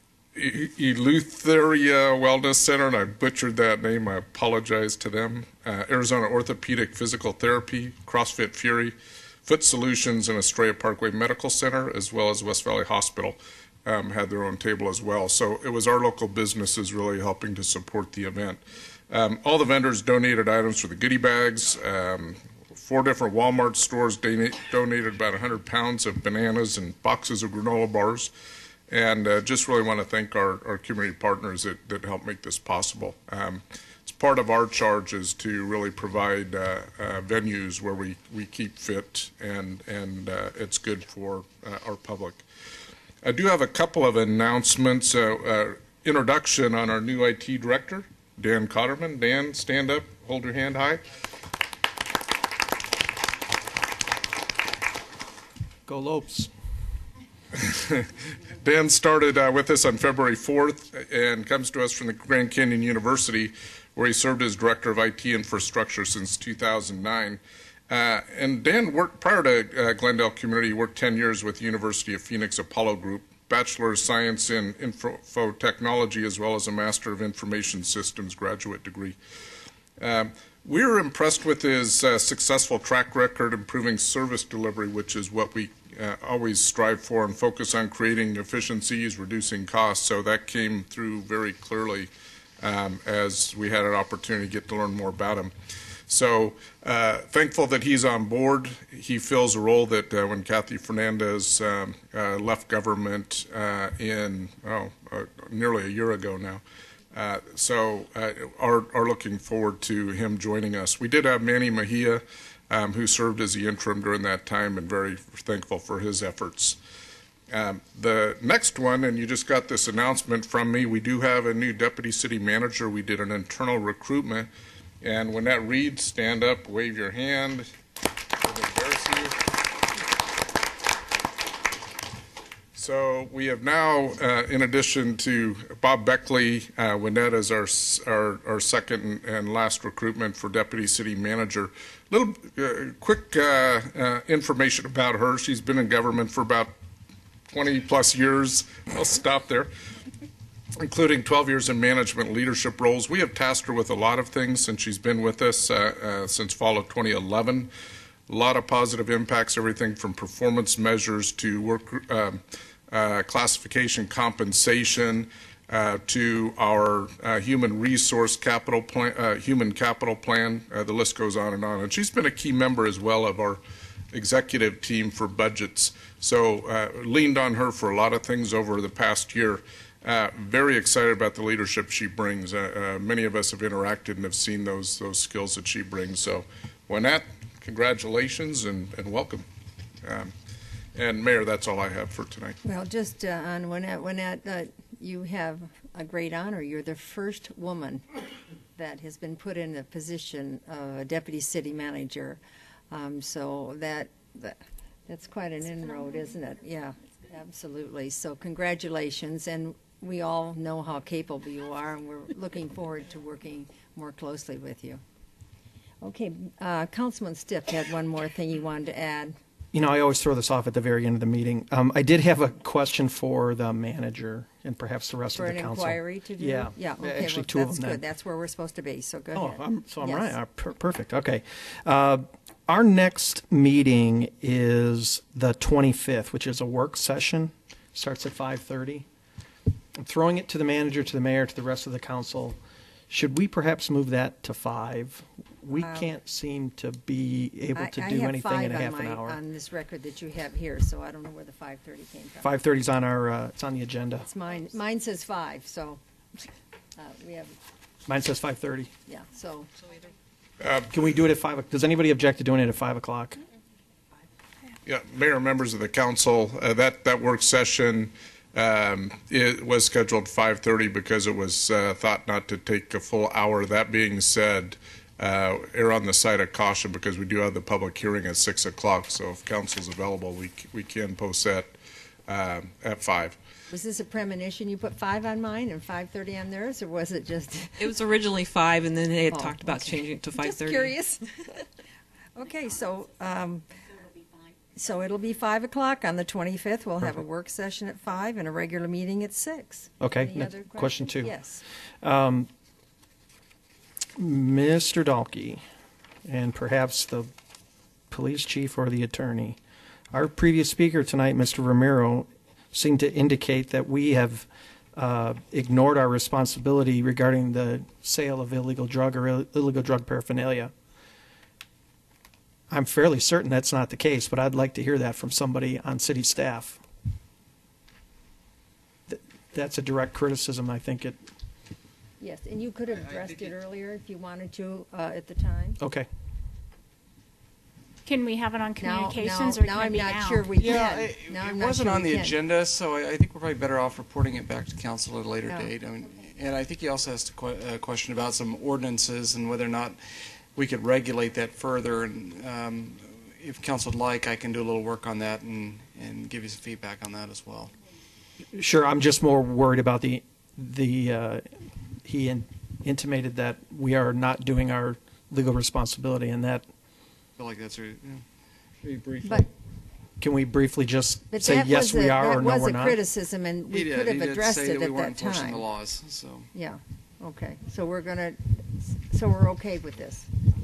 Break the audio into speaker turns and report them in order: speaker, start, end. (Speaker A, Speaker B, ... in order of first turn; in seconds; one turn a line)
Speaker A: 0.3-28.3
Speaker A: 28.9-42.4
Speaker A: 43.2-51.0
Speaker B: 55.9-56.5
Speaker A: 57.6-79.2
Speaker A: 80.0-92.1
Speaker A: 92.6-95.5
Speaker A: 96.1-106.6
Speaker A: 107.1-116.8
Speaker A: 117.5-124.5
Speaker A: 125.0-127.7
Speaker C: 128.4-129.3
Speaker A: 128.7-129.3
Speaker A: 132.7-146.7
Speaker A: 147.5-149.7
Speaker A: 150.8-157.7
Speaker A: 158.3-173.6
Speaker A: 174.1-189.4
Speaker A: 190.0-190.3
Speaker A: 190.9-192.6
Speaker D: 192.6-198.0
Speaker D: 198.8-202.4
Speaker D: 202.9-215.0
Speaker D: 216.0-219.4
Speaker B: 219.7-228.0
Speaker D: 225.3-230.3
Speaker B: 229.3-239.1
Speaker B: 240.0-242.6
Speaker B: 243.1-249.4
Speaker D: 245.8-246.1
Speaker D: 247.7-252.5
Speaker B: 252.4-254.3
Speaker D: 254.2-256.0
Speaker D: 257.0-257.6
Speaker B: 258.1-258.9
Speaker D: 259.1-259.7
Speaker A: 260.6-260.9
Speaker B: 260.9-263.4
Speaker A: 264.9-281.7
Speaker A: 282.3-283.4
Speaker D: 283.7-287.9
Speaker E: 287.8-290.9
Speaker D: 289.3-291.2
Speaker D: 292.4-293.6
Speaker D: 294.7-301.6
Speaker B: 300.0-301.3
Speaker B: 302.0-302.5
Speaker B: 304.2-305.6
Speaker B: 306.2-307.3
Speaker B: 308.1-309.6
Speaker B: 310.1-320.7
Speaker B: 322.7-326.8
Speaker B: 329.1-331.2
Speaker D: 332.2-335.8
Speaker B: 335.8-336.1
Speaker F: 338.0-340.5
Speaker D: 338.8-342.4
Speaker C: 340.5-357.7
Speaker D: 345.5-345.7
Speaker B: 358.6-366.6
Speaker C: 367.4-368.2
Speaker C: 368.8-369.4
Speaker B: 370.2-373.0
Speaker D: 371.3-375.6
Speaker C: 373.7-376.5
Speaker D: 376.5-380.3